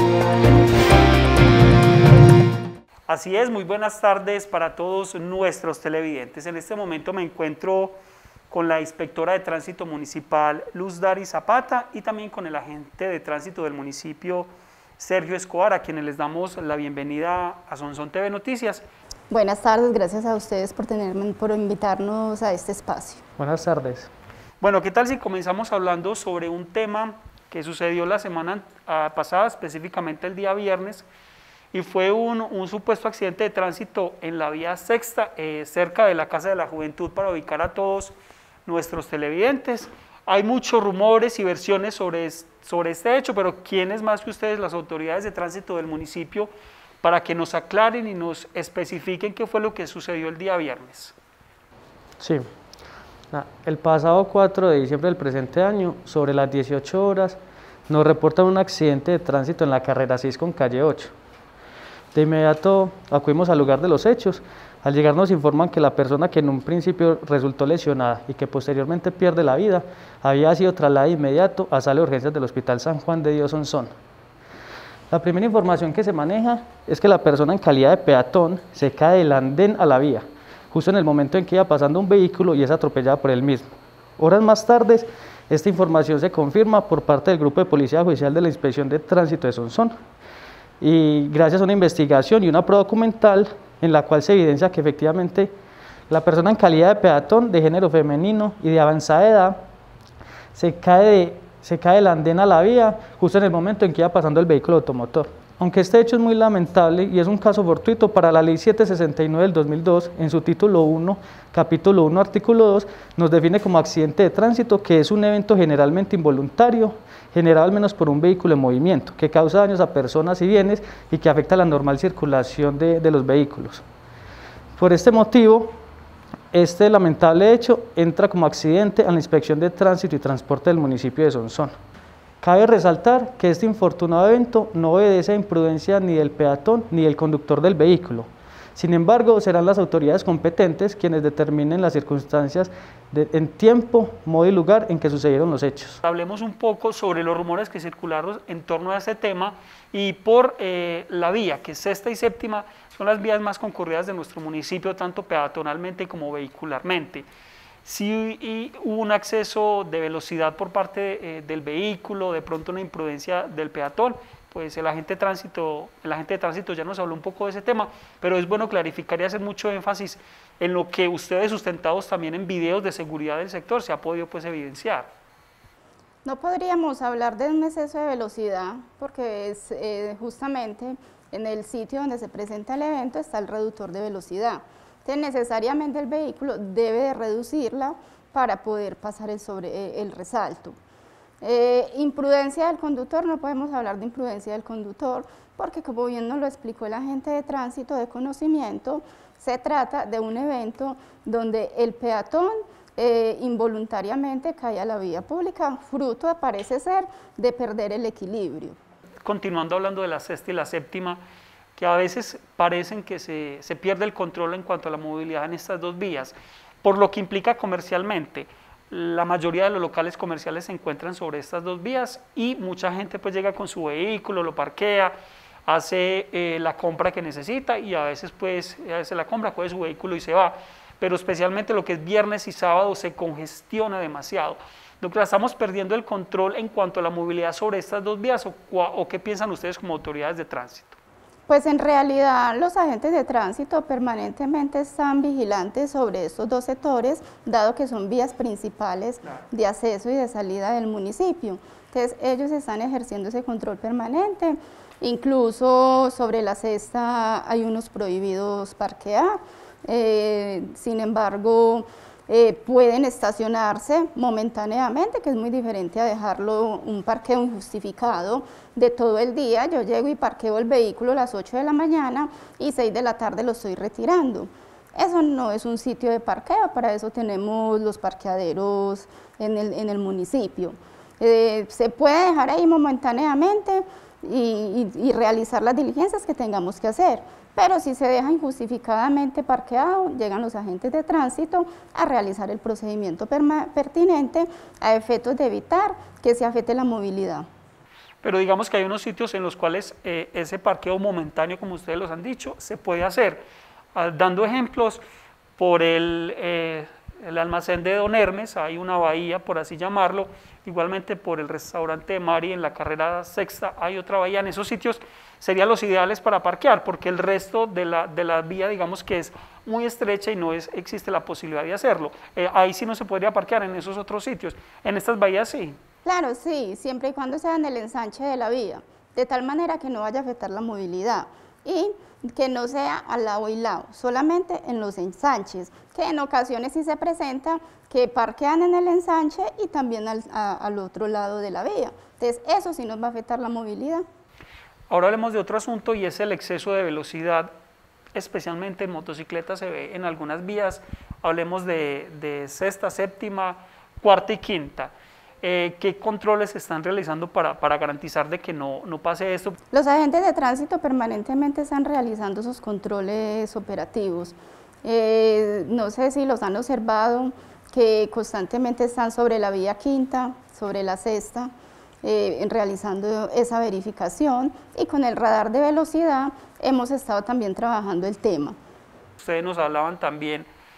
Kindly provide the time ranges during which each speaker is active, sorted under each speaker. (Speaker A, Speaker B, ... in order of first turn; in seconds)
Speaker A: 3.1-8.0, 8.5-18.9, 24.6-31.1, 31.7-46.5, 47.0-51.1, 146.0-157.3, 157.8-175.1, 209.2-211.2, 211.8-225.1, 225.7-241.0, 298.2-303.4, 303.9-305.0, 305.6-325.8, 344.9-347.5, 348.1-359.6, 379.2-380.5
Speaker B: 19.3-23.2, 176.2-190.8, 191.4-208.8, 241.5-297.5, 326.0-344.1, 359.7-371.5, 372.0-378.6
Speaker C: 23.4-24.1, 52.2-52.5, 53.3-61.1, 62.1-73.9, 75.1-83.7, 84.2-89.9, 90.8-95.5, 96.1-99.6, 100.5-123.8, 124.8-125.8, 126.5-131.7, 132.4-146.0